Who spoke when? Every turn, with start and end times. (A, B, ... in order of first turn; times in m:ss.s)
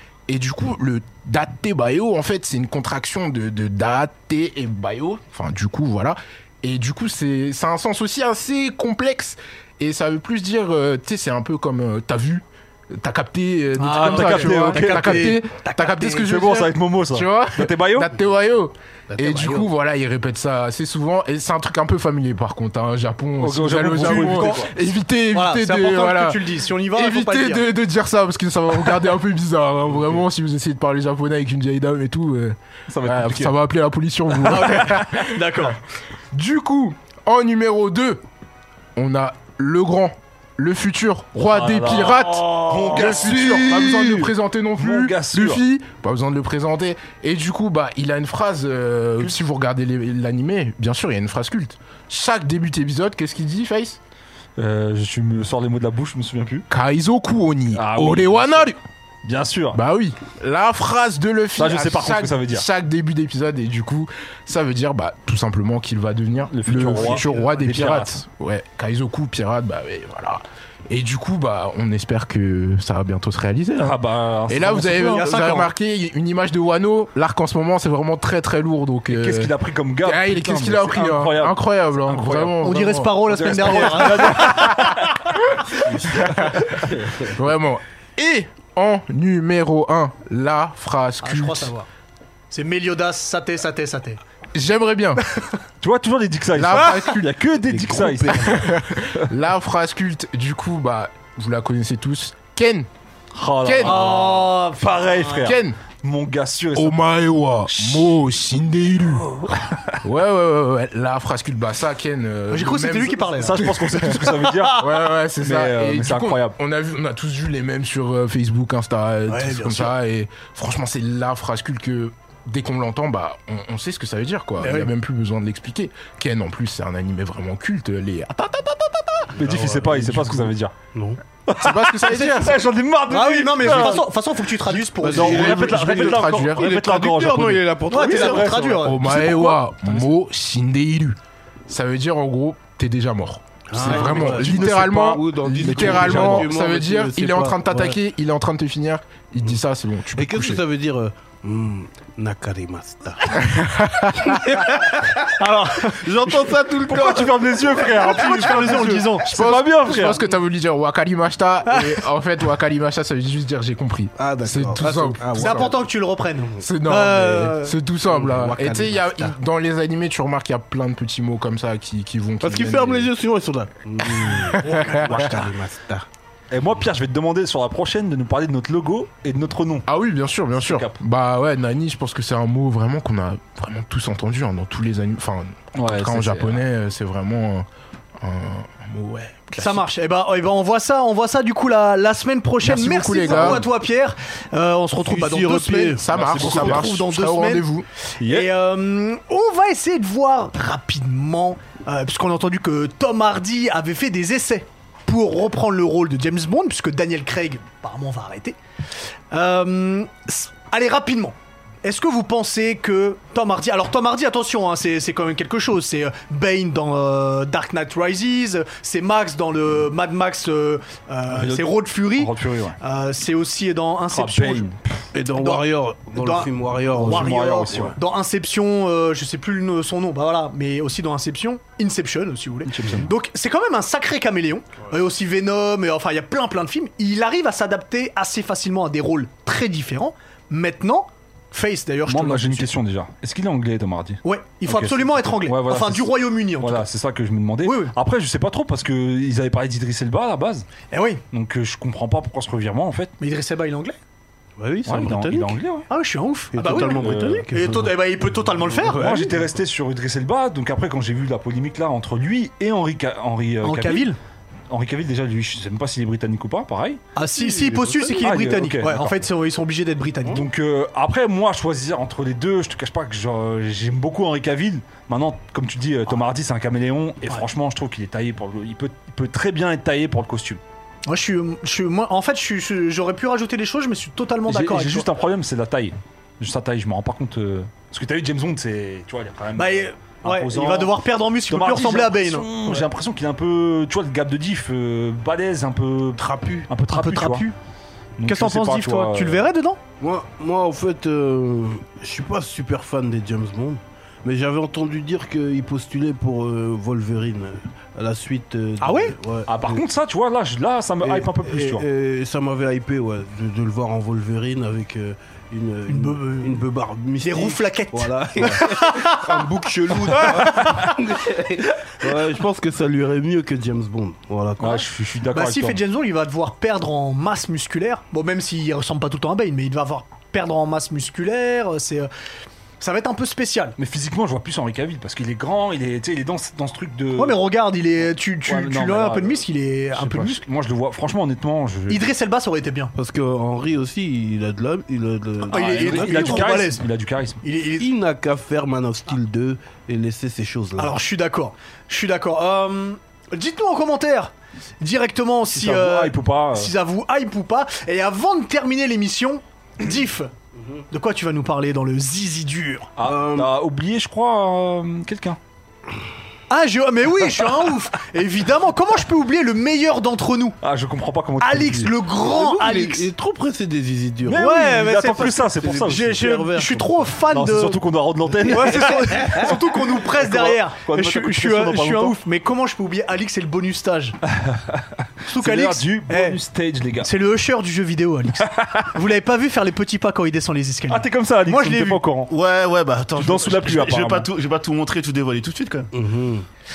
0:00.3-0:35.8 A
0:13.8-0:16.2 B
0:13.9-0:15.4 C
0:16.0-0:18.1 C
0:19.1-0:19.7 D
0:23.4-0:24.7 C
0:23.9-0:24.7 B
0:25.3-0:27.6 B
0:32.9-0:33.5 D
0:34.4-0:35.8 B
0:36.3-0:38.2 A
0:39.0-0:54.0 A
0:41.4-0:45.6 C
0:54.6-0:56.6 C
0:56.7-0:58.8 A
0:57.7-0:58.7 C
0:59.2-0:59.8 C
0:59.7-1:14.0 A
1:01.6-1:02.6 C
1:06.5-1:08.1 C
1:13.8-1:15.3 C
1:14.5-1:25.0 A
1:14.8-1:15.7 B
1:19.1-1:22.6 C
1:22.6-1:25.0 B
1:23.3-1:25.2 C
1:25.8-1:26.6 D
1:26.1-1:31.7 A
1:26.1-1:27.2 C
1:31.2-1:31.9 B
1:32.5-1:34.2 B
1:34.5-1:35.2 A
1:35.8-1:39.3 C
1:36.5-1:37.2 A
1:37.7-1:38.8 D
1:38.3-1:42.9 A
1:43.3-1:47.0 C
1:43.6-1:44.0 A
1:43.8-1:45.5 B
1:45.4-1:45.8 A
1:46.7-1:49.4 A
1:47.6-1:48.1 C
1:49.5-1:50.0 C
1:50.0-2:09.3 A
1:52.5-1:53.7 B
1:53.4-1:54.8 C
1:54.3-1:54.9 B
1:55.4-1:56.5 C
1:59.3-1:59.9 B
2:04.6-2:04.9 B
2:09.3-2:11.2 D
2:09.4-2:10.7 C
2:11.5-2:14.1 C
2:11.6-2:12.6 A
2:13.1-2:15.6 B
2:14.7-2:20.1 C
2:15.0-2:18.8 D
2:15.1-2:16.7 A
2:17.9-2:19.0 B
2:18.8-2:30.6 A
2:23.7-2:28.0 D
2:23.8-2:24.8 C
2:23.9-2:24.2 B
2:25.6-2:26.5 C
2:30.1-2:33.6 D
2:33.4-2:34.5 A
2:34.1-2:38.6 D
2:35.4-2:36.1 B
2:36.8-2:40.2 C
2:37.9-2:39.3 B
2:39.2-2:45.7 A
2:44.2-2:45.8 D
2:44.8-2:47.7 B
2:46.6-2:53.1 A
2:48.1-2:49.3 D
2:52.4-2:56.0 D
2:54.0-2:55.4 A
2:55.2-2:55.5 C
2:56.5-2:59.9 C
2:59.9-3:07.7 A
3:00.6-3:01.0 C
3:05.8-3:06.6 C
3:08.2-3:09.8 A
3:09.5-3:17.6 B
3:12.6-3:13.6 A
3:13.3-3:13.6 C
3:15.0-3:16.8 D
3:16.0-3:17.9 A
3:16.1-3:16.7 C
3:18.2-3:28.6 B
3:18.2-3:18.5 C
3:29.3-3:44.6 B
3:41.3-3:42.8 C
3:44.1-3:45.0 C
3:45.1-3:48.0 D
3:45.3-4:02.7 B
3:46.9-3:48.0 C
3:52.6-3:53.1 D
3:52.8-3:53.1 C
4:02.1-4:10.7 C
4:04.2-4:06.8 B
4:07.6-4:07.9 B
4:10.9-4:11.2 B
4:11.3-4:13.1 C
4:13.2-4:14.0 B
4:14.6-4:15.6 D
4:14.8-4:15.9 C
4:15.9-4:19.0 B
4:16.5-4:17.9 D
4:16.7-4:17.5 C
4:18.6-4:19.6 D
4:18.8-4:24.1 C
4:23.6-4:24.2 B
4:24.7-4:27.0 C
4:27.2-4:30.4 B
4:27.3-4:28.3 D
4:28.2-4:29.2 C
4:30.3-4:40.6 C
4:41.1-4:45.1 B
4:44.5-4:50.9 C
4:49.6-4:52.8 B
4:51.5-4:57.4 C
4:56.2-4:56.7 D
4:56.9-4:57.6 B
4:58.2-4:59.4 C
4:58.2-4:59.8 B
5:00.0-5:09.8 D
5:08.8-5:09.1 B
5:09.4-5:11.8 C
5:11.0-5:24.8 D
5:15.9-5:16.6 B
5:17.2-5:19.4 B
5:20.0-5:21.0 B
5:24.6-5:25.8 C
5:25.3-5:32.1 B
5:32.8-5:33.8 B
5:33.8-5:37.4 C
5:37.2-5:40.4 B
5:38.4-5:42.0 C
5:41.9-5:42.9 B
5:42.9-5:46.5 D
5:45.5-5:46.8 B
5:45.5-5:47.4 C
5:47.4-5:47.9 B
5:47.8-5:51.0 D
5:50.8-6:00.3 B
5:55.5-5:56.7 C
6:00.6-6:00.8 D
6:00.9-6:02.9 B
6:03.0-6:05.4 C
6:03.0-6:03.5 D
6:06.5-6:10.6 B
6:10.6-6:11.9 C
6:11.4-6:13.1 B
6:12.2-6:17.0 D
6:14.2-6:16.4 C
6:14.3-6:17.8 B
6:17.3-6:22.2 C
6:18.4-6:24.2 B
6:18.4-6:19.5 D
6:24.3-6:27.1 C
6:25.3-6:26.4 B
6:27.0-6:32.0 B
6:28.4-6:28.9 C
6:30.9-6:32.3 C
6:32.3-6:35.9 E
6:33.2-6:34.3 C
6:35.9-6:36.5 D